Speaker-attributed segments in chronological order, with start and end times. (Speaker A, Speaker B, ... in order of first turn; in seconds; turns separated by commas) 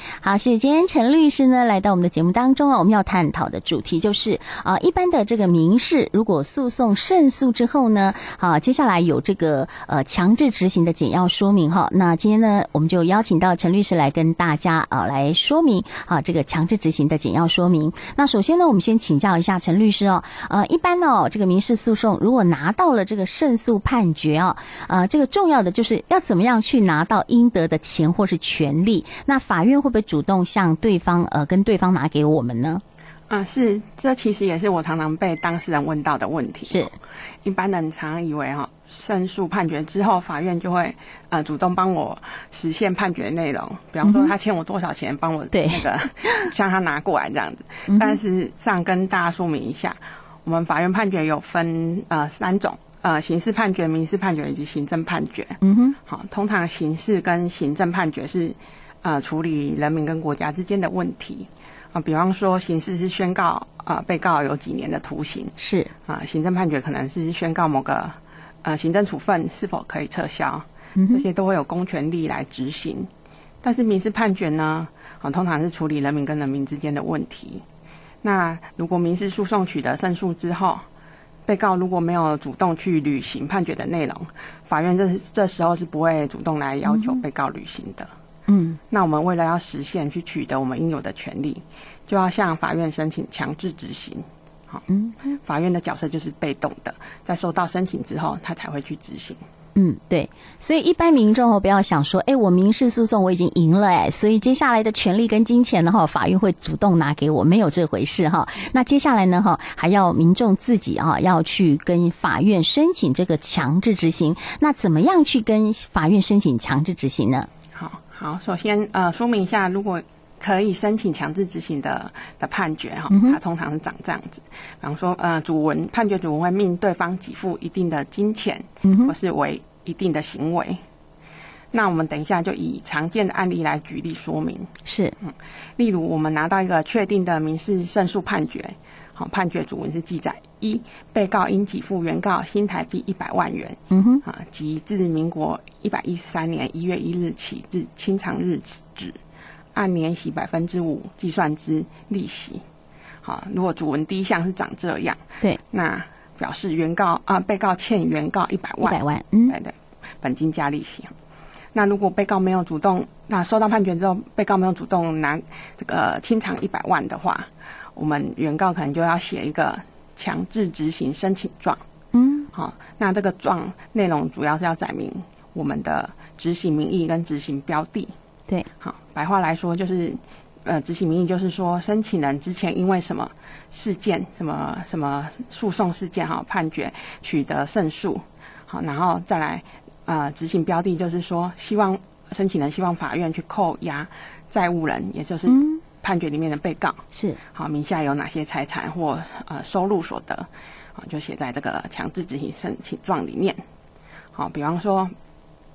Speaker A: 0.2-32.8, Speaker B: 33.3-36.9, Speaker A: 36.7-36.9, Speaker B: 37.4-65.5, Speaker A: 44.0-44.3, Speaker A: 45.5-46.5, Speaker A: 47.9-48.2, Speaker A: 55.6-56.0, Speaker A: 65.6-65.9, Speaker B: 66.0-73.1, Speaker A: 71.0-71.2, Speaker B: 73.6-77.6, Speaker B: 78.2-80.8, Speaker B: 81.5-88.1, Speaker A: 86.9-87.2, Speaker A: 88.5-88.8, Speaker B: 88.9-94.8, Speaker A: 94.9-95.2, Speaker B: 95.4-99.4, Speaker A: 99.8-117.5, Speaker B: 117.7-130.8, Speaker A: 123.1-123.4, Speaker A: 128.8-129.1, Speaker B: 131.7-149.2, Speaker A: 134.8-135.1, Speaker A: 143.9-144.2, Speaker B: 149.7-152.6, Speaker B: 153.2-161.1, Speaker A: 158.8-159.6, Speaker B: 161.7-171.8, Speaker A: 172.1-172.5, Speaker B: 172.5-178.1, Speaker B: 178.8-203.6, Speaker A: 195.5-195.8, Speaker A: 197.1-197.4, Speaker B: 204.3-205.1